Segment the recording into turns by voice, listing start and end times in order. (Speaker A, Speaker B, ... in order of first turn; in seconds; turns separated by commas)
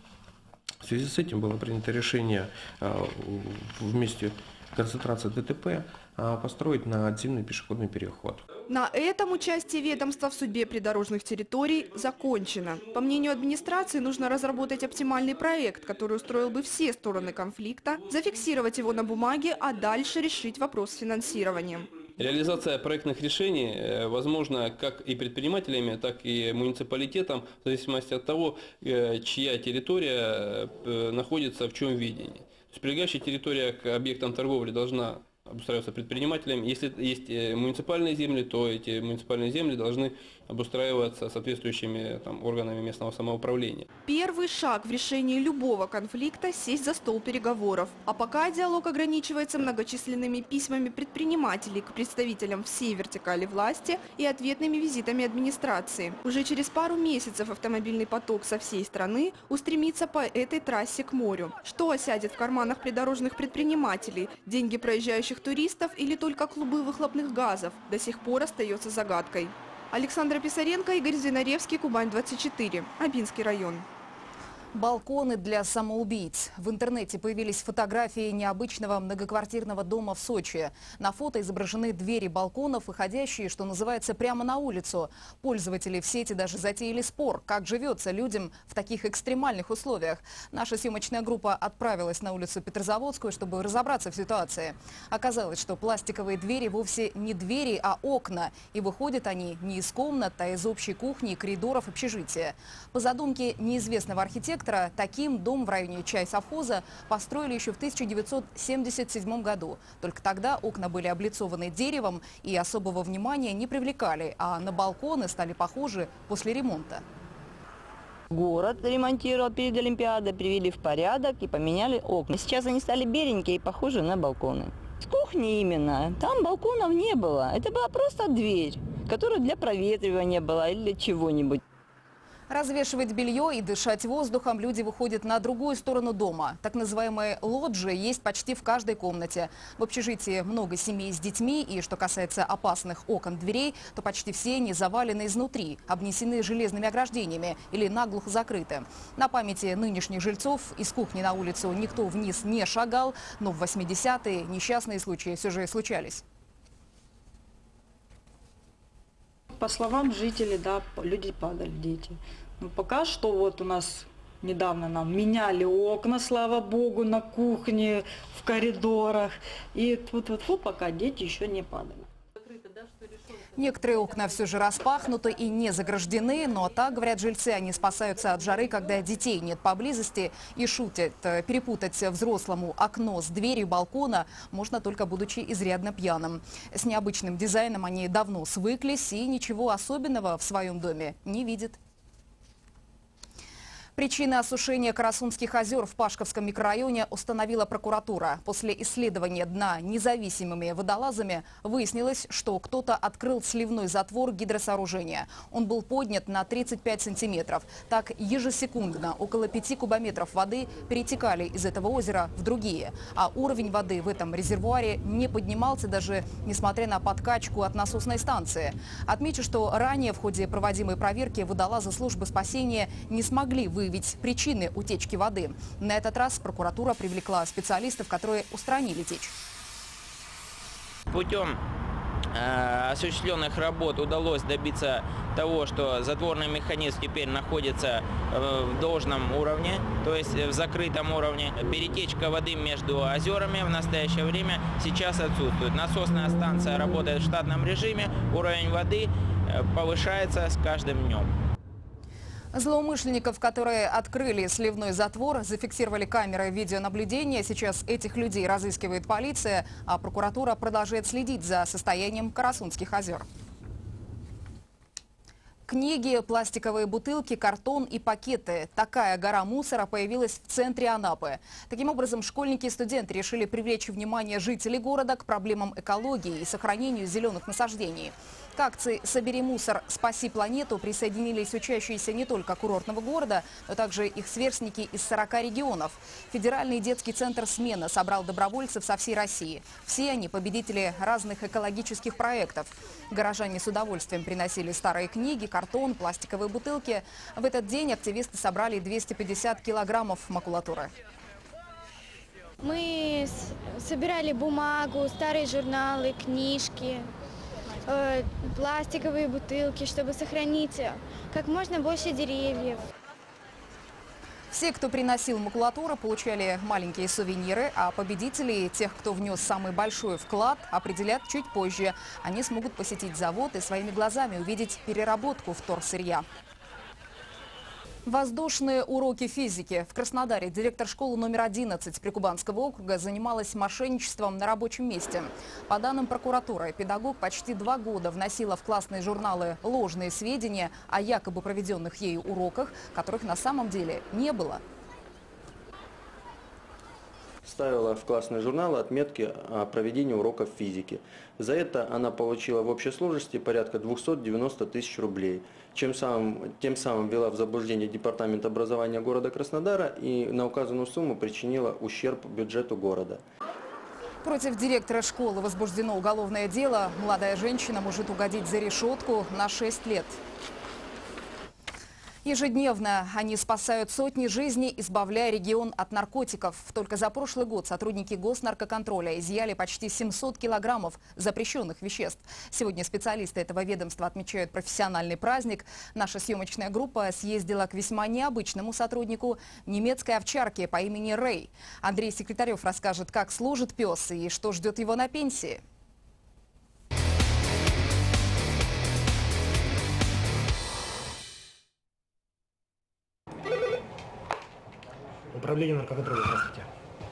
Speaker A: 0.8-8.5, Speaker B: 8.7-21.9, Speaker C: 22.2-43.9, Speaker B: 44.1-73.8, Speaker D: 74.7-117.0, Speaker E: 118.3-131.6, Speaker D: 132.5-156.2, Speaker F: 159.5-172.1, Speaker D: 173.6-191.8, Speaker D: 193.9-229.3, Speaker G: 231.1-231.6, Speaker G: 232.3-251.3, Speaker D: 252.5-263.2, Speaker D: 265.7-300.9, Speaker H: 302.6-307.1, Speaker H: 307.9-312.8, Speaker D: 314.5-326.2, Speaker D: 328.1-344.6, Speaker I: 347.4-363.2, Speaker D: 364.2-370.2, Speaker D: 372.2-395.6